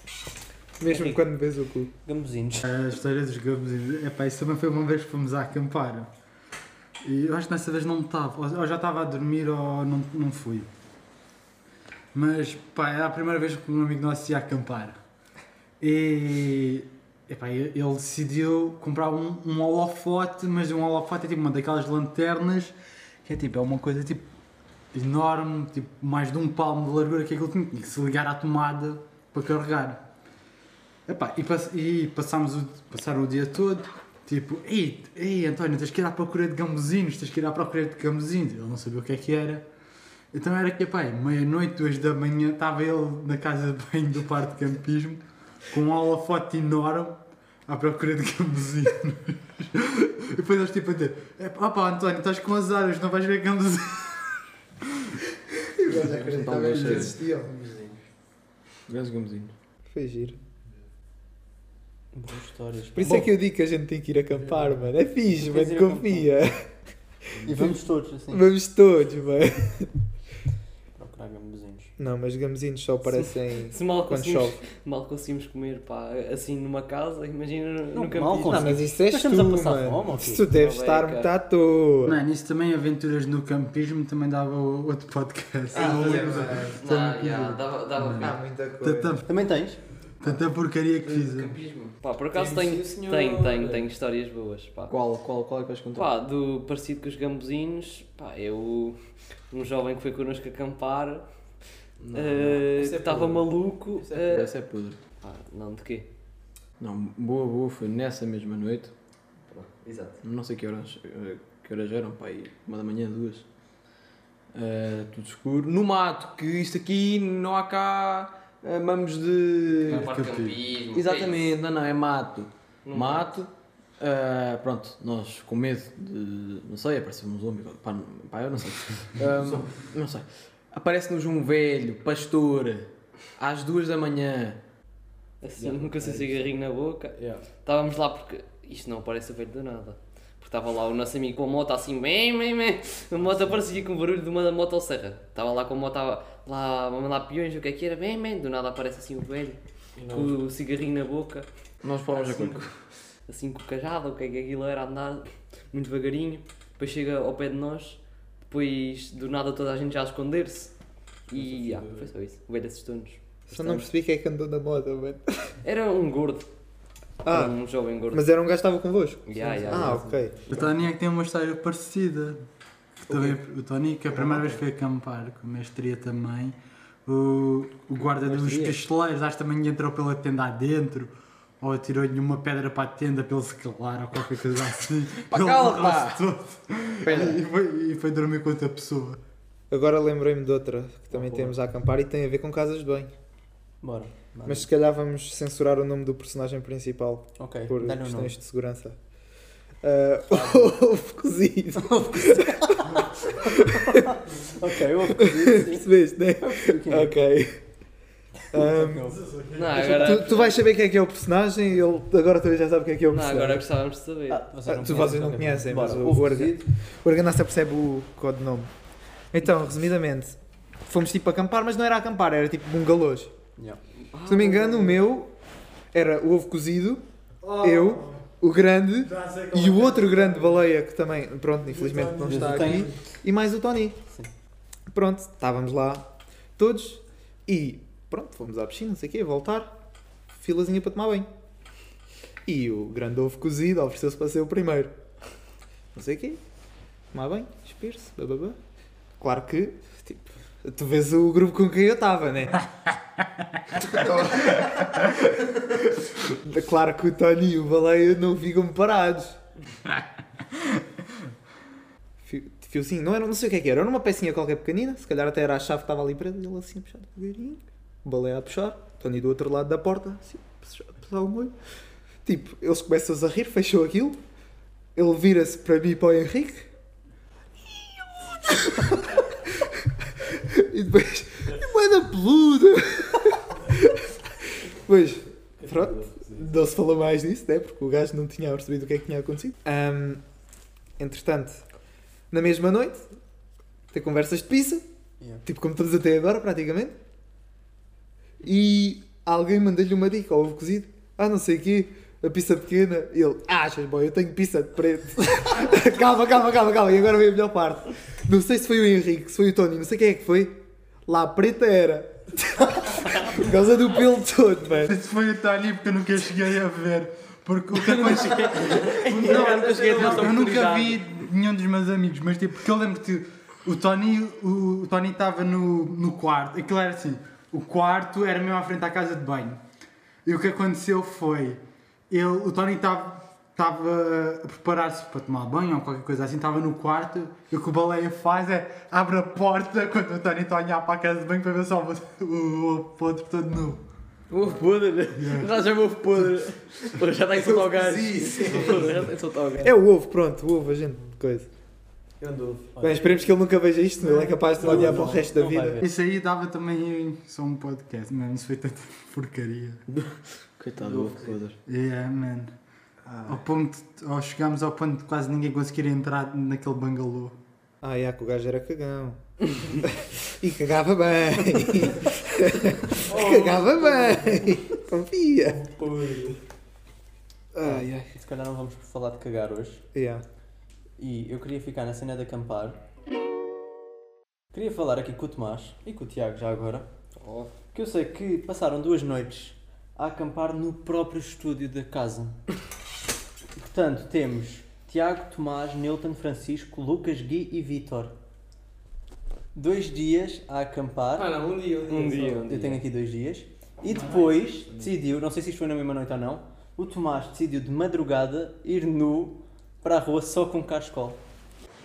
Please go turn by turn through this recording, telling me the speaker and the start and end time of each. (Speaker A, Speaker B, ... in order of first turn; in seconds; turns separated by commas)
Speaker A: 0.8-1.9, Speaker B: 0.8-1.3, Speaker B: 2.0-2.6, Speaker C: 2.6-6.1, Speaker C: 7.0-10.7, Speaker C: 12.1-15.0, Speaker C: 15.8-24.2, Speaker C: 24.9-30.0, Speaker C: 31.1-39.6, Speaker C: 40.3-55.2, Speaker A: 55.8-57.5, Speaker D: 55.9-57.6, Speaker C: 56.7-57.1, Speaker D: 58.9-59.5, Speaker A: 59.9-60.4, Speaker B: 62.1-63.3, Speaker A: 62.9-66.7, Speaker B: 65.3-66.4, Speaker A: 67.4-67.8, Speaker B: 67.4-68.5, Speaker A: 68.3-69.9, Speaker B: 70.9-71.9, Speaker A: 72.0-74.6, Speaker E: 73.7-78.8, Speaker B: 77.9-80.5, Speaker A: 78.4-82.2, Speaker E: 80.5-81.3, Speaker C: 82.0-89.3, Speaker A: 85.7-86.8, Speaker E: 86.8-88.4, Speaker A: 88.1-89.2, Speaker B: 89.2-89.8, Speaker C: 90.2-91.5, Speaker E: 91.0-94.9, Speaker D: 92.3-93.8, Speaker D: 94.9-96.1, Speaker E: 95.9-99.0, Speaker E: 99.5-101.2, Speaker D: 102.0-105.0, Speaker E: 102.1-104.5, Speaker E: 105.2-106.1, Speaker D: 106.8-108.9, Speaker E: 109.5-110.2, Speaker D: 110.2-113.4, Speaker D: 114.5-120.1, Speaker E: 119.8-121.5, Speaker C: 119.9-120.6, Speaker D: 120.9-134.6, Speaker E: 122.8-123.3, Speaker E: 135.4-151.5, Speaker D: 135.6-136.5, Speaker D: 137.2-137.4, Speaker D: 143.2-143.6, Speaker D: 150.0-150.3, Speaker D: 151.8-152.8, Speaker E: 152.1-152.7, Speaker E: 153.3-160.7, Speaker E: 161.3-163.9, Speaker D: 161.3-162.1, Speaker A: 163.5-165.6, Speaker E: 165.6-166.5, Speaker A: 167.2-167.6, Speaker E: 167.2-168.2, Speaker A: 168.1-170.4, Speaker E: 169.3-170.6, Speaker D: 169.5-170.5, Speaker C: 170.5-172.4, Speaker C: 173.1-189.2, Speaker A: 173.1-173.3, Speaker D: 178.2-178.8, Speaker D: 185.3-186.2, Speaker D: 187.0-187.4, Speaker A: 189.7-193.1, Speaker B: 193.8-194.7, Speaker A: 194.4-198.9, Speaker B: 197.4-198.3, Speaker A: 199.8-204.2, Speaker B: 201.8-207.2, Speaker A: 205.0-207.6, Speaker B: 208.5-209.2, Speaker A: 208.5-209.1, Speaker C: 209.2-210.2, Speaker E: 209.5-210.6, Speaker A: 209.8-213.6, Speaker E: 213.1-214.4, Speaker B: 214.3-216.7, Speaker A: 214.7-218.7, Speaker A: 219.3-223.3, Speaker E: 224.1-225.1, Speaker A: 224.2-225.3, Speaker A: 225.9-227.0, Speaker C: 227.4-228.2, Speaker A: 227.6-234.0, Speaker C: 229.0-230.6, Speaker C: 231.7-232.9, Speaker B: 232.2-232.9, Speaker A: 234.9-239.7, Speaker A: 240.3-241.3, Speaker A: 242.4-244.9, Speaker A: 245.9-246.4, Speaker A: 247.1-248.6, Speaker A: 249.2-252.6, Speaker A: 253.8-259.4, Speaker A: 262.2-271.5, Speaker A: 272.2-274.2, Speaker A: 274.9-276.7, Speaker A: 277.7-290.2, Speaker D: 285.6-286.4, Speaker A: 291.0-291.6, Speaker A: 292.3-293.1, Speaker A: 293.9-294.8, Speaker A: 295.4-296.9, Speaker A: 298.4-314.9, Speaker C: 314.8-329.6, Speaker D: 317.8-320.9, Speaker E: 318.9-320.8, Speaker C: 330.2-343.8, Speaker D: 344.3-349.7, Speaker C: 345.2-345.5, Speaker C: 348.4-349.0, Speaker E: 348.5-348.8, Speaker A: 349.6-351.5, Speaker D: 352.2-352.7, Speaker B: 352.8-353.3, Speaker A: 352.8-355.8, Speaker B: 354.2-355.9, Speaker C: 355.8-359.8, Speaker D: 359.9-361.6, Speaker C: 361.6-362.5, Speaker C: 363.1-367.4, Speaker A: 367.8-375.7, Speaker D: 373.1-373.4, Speaker B: 373.1-374.4, Speaker D: 375.8-376.1, Speaker A: 377.5-378.1, Speaker B: 377.6-379.8, Speaker A: 379.9-380.2, Speaker B: 381.0-382.8, Speaker B: 384.5-386.9, Speaker E: 387.2-387.5, Speaker B: 387.7-392.4, Speaker B: 393.6-398.1, Speaker B: 399.5-401.4, Speaker D: 401.2-402.4, Speaker E: 401.2-402.8, Speaker B: 401.9-411.2